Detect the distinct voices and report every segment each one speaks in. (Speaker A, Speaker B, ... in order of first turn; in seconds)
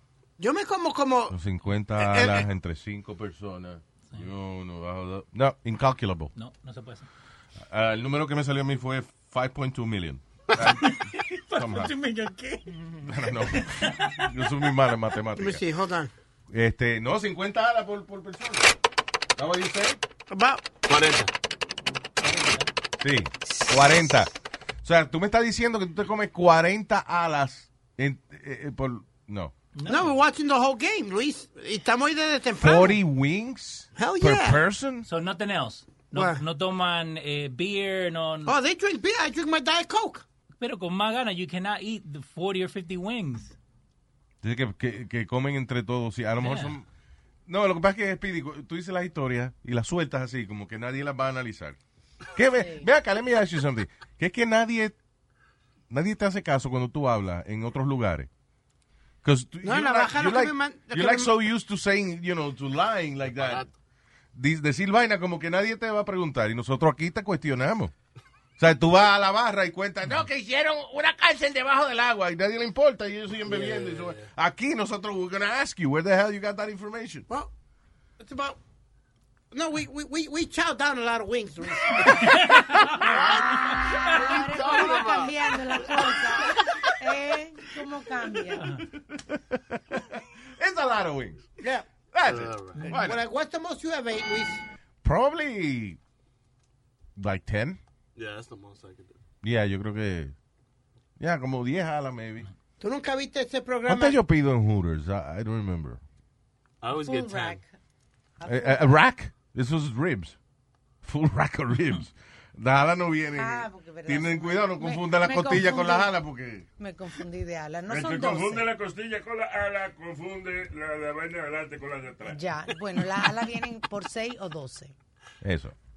Speaker A: 0.4-1.4, 1.9-2.4, 15.3-16.1, 20.3-20.6, 29.9-33.0, 34.0-34.6, 36.1-36.4, 38.5-40.2, 59.6-61.3, 78.2-78.6, 79.5-83.7, 91.6-91.8, 92.8-94.6, 102.8-104.2
Speaker B: 1.3-6.3, 7.6-10.9, 11.5-11.9, 13.0-15.6, 16.5-18.7, 19.4-20.0, 23.0-24.3, 24.8-29.5, 32.6-35.1, 44.4-46.8, 47.5-51.8, 52.3-55.0, 55.9-58.3, 59.2-63.7, 64.3-67.9, 68.6-77.3, 89.1-91.5, 92.1-93.2, 95.0-96.0, 97.2-97.8, 99.4-100.3, 101.2-102.5, 103.8-106.0, 108.4-110.4, 111.0-116.6, 125.4-125.7
Speaker C: 6.3-7.1, 10.8-12.8, 13.4-14.2, 22.2-22.7, 29.7-30.1, 35.0-38.5, 40.6-43.5, 46.4-46.7, 82.2-84.0, 88.6-88.8, 92.8-93.0
Speaker D: 20.8-21.3, 63.4-63.7, 73.4-74.2, 84.0-85.4, 92.2-92.9, 98.2-99.2, 106.8-107.6
Speaker E: 52.5-52.9, 83.3-88.8, 106.9-107.7, 108.4-109.0, 113.3-116.2, 116.8-118.7, 122.3-124.9
Speaker F: 117.9-122.4